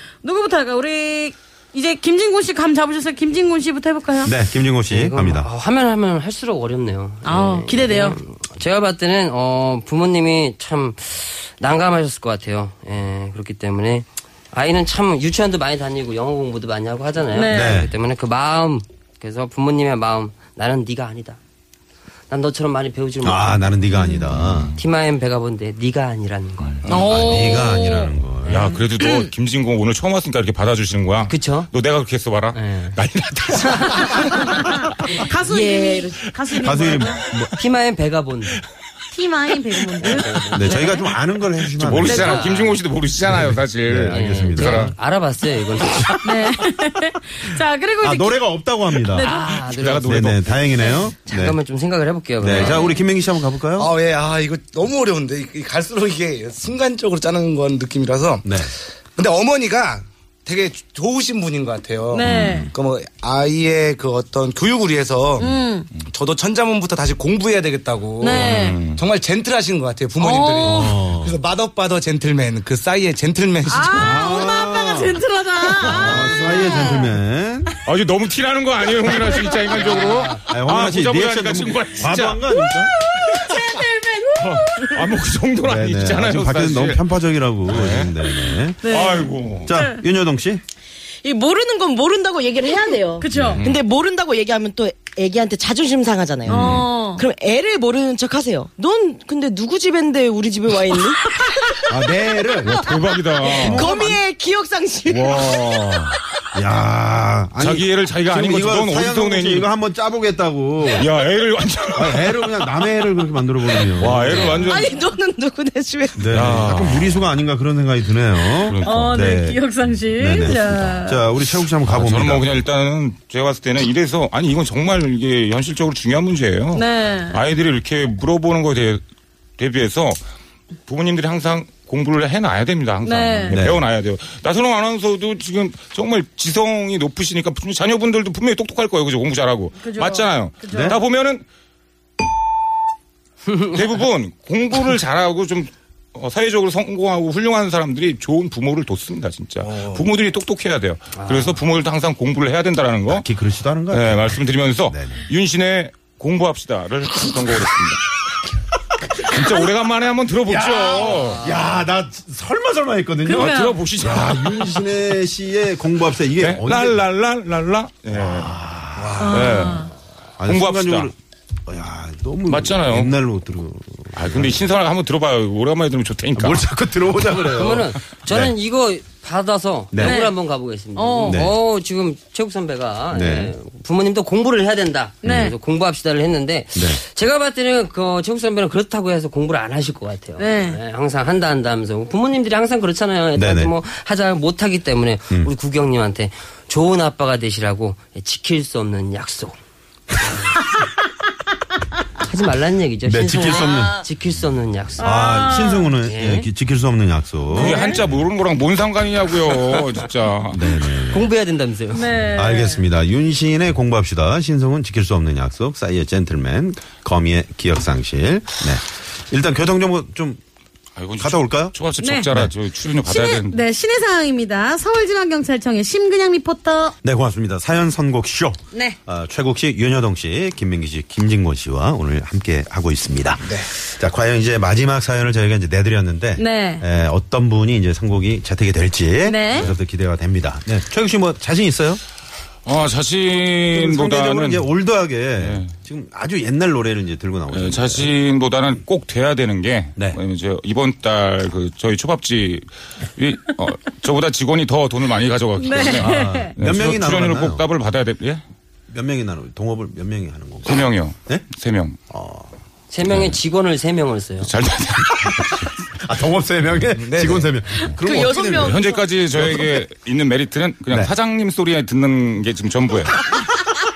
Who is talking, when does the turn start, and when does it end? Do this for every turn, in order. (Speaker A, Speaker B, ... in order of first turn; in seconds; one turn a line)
Speaker A: 0.2-4.3
Speaker B: 4.2-5.5
Speaker C: 4.9-21.4
Speaker A: 7.2-8.2
Speaker A: 17.3-17.8
Speaker B: 17.5-17.9
Speaker C: 22.3-23.7
Speaker B: 23.2-24.8
Speaker C: 24.3-27.7
Speaker D: 24.4-24.8
Speaker E: 26.8-27.4
Speaker A: 26.9-28.1
Speaker B: 27.1-28.7
Speaker D: 28.5-35.1
Speaker A: 28.8-29.3
Speaker C: 31.3-31.7
Speaker C: 32.5-33.0
Speaker C: 33.6-34.6
Speaker A: 34.5-37.2
Speaker F: 35.5-36.1
Speaker B: 36.6-37.5
Speaker C: 37.5-38.6
Speaker A: 39.1-41.0
Speaker C: 40.0-41.0
Speaker B: 40.5-42.5
Speaker D: 41.8-44.9
Speaker A: 42.1-42.4
Speaker C: 42.1-42.8
Speaker B: 43.2-44.9
Speaker C: 44.1-46.3
Speaker A: 46.2-48.4
Speaker B: 48.0-49.3
Speaker A: 49.0-49.5
Speaker C: 49.2-50.4
Speaker D: 49.7-50.6
Speaker B: 50.0-51.6
Speaker C: 51.1-53.0
Speaker B: 52.4-53.9
Speaker E: 53.8-58.5
Speaker B: 58.4-58.7
Speaker E: 59.2-74.3
Speaker A: 62.1-62.7
Speaker B: 62.2-62.7
Speaker A: 65.4-65.9
Speaker A: 68.2-68.9
Speaker D: 68.3-69.0
Speaker A: 70.2-71.0
Speaker B: 70.6-71.4
Speaker A: 73.7-77.2
Speaker B: 74.0-75.2
Speaker B: 75.8-77.7
Speaker D: 77.9-82.5
Speaker A: 79.3-79.9
Speaker C: 79.8-80.4
Speaker B: 80.5-82.9
Speaker A: 83.2-85.1
Speaker D: 84.4-87.1
Speaker B: 85.6-88.8
Speaker D: 87.7-88.3
Speaker A: 88.8-90.0
Speaker D: 88.8-89.7
Speaker B: 89.7-90.6
Speaker F: 91.2-101.9
Speaker A: 93.2-93.6
Speaker B: 93.3-93.6
Speaker D: 93.5-93.7
Speaker B: 96.5-96.9
Speaker A: 96.5-97.2
Speaker B: 101.9-102.8
Speaker D: 102.6-103.9
Speaker F: 103.4-106.2
Speaker B: 103.6-104.2
Speaker D: 105.1-106.2
Speaker B: 106.5-111.1
Speaker D: 107.6-109.7
Speaker D: 110.9-112.5
Speaker B: 112.0-114.7
Speaker F: 113.7-116.3
Speaker D: 114.0-114.9
Speaker B: 116.2-122.6
Speaker D: 116.3-117.3
Speaker D: 118.7-119.2
Speaker A: 118.8-121.2
Speaker D: 121.8-129.0
Speaker A: 126.7-127.4
Speaker D: 129.6-130.2
Speaker D: 130.9-141.4
Speaker A: 133.0-133.6
Speaker B: 133.5-133.8
Speaker A: 139.8-141.0
Speaker B: 140.7-141.0
Speaker D: 143.5-153.3
Speaker E: 149.6-150.0
Speaker C: 151.2-151.6
Speaker B: 153.1-155.2
Speaker D: 153.9-158.1
Speaker D: 159.2-161.6
Speaker B: 160.5-167.0
Speaker C: 161.3-161.7
Speaker A: 163.3-163.8
Speaker D: 163.3-164.9
Speaker D: 166.4-168.6
Speaker B: 168.1-169.7
Speaker A: 169.2-169.9
Speaker D: 169.2-169.9
Speaker B: 170.4-171.2
Speaker D: 170.4-171.1
Speaker B: 171.7-174.7
Speaker D: 172.5-173.2
Speaker D: 174.2-176.7
Speaker B: 176.3-178.5
Speaker C: 177.5-199.6
Speaker B: 179.9-180.2
Speaker A: 180.0-180.3
Speaker A: 180.9-181.4
Speaker B: 181.2-181.6
Speaker B: 183.1-183.5
Speaker B: 185.2-185.6
Speaker A: 185.2-185.6
Speaker A: 190.4-190.8
Speaker B: 193.4-193.7
Speaker C: 202.2-205.2
Speaker B: 203.0-204.1
Speaker F: 203.5-203.7
Speaker B: 205.0-207.9
Speaker A: 205.0-205.9
Speaker C: 206.0-206.5
Speaker D: 207.5-210.6
Speaker B: 210.5-211.3
Speaker C: 211.1-212.2
Speaker A: 211.9-212.8
Speaker B: 212.3-220.4
Speaker D: 221.0-223.6
Speaker B: 221.2-221.8
Speaker A: 222.0-222.3
Speaker A: 223.1-226.9
Speaker B: 227.0-242.0
Speaker A: 236.4-236.8
Speaker A: 239.2-239.7
Speaker D: 242.7-244.7
Speaker B: 243.7-248.1
Speaker D: 245.4-245.7
Speaker D: 247.5-258.4
Speaker A: 255.6-256.5
Speaker B: 256.0-257.7
Speaker B: 258.9-261.4
Speaker D: 260.6-262.0
Speaker B: 262.1-262.5
Speaker C: 262.9-264.5
Speaker B: 263.0-263.4
Speaker D: 264.4-265.7
Speaker B: 265.4-268.8
Speaker E: 267.0-267.5
Speaker F: 268.0-269.0
Speaker D: 268.6-273.2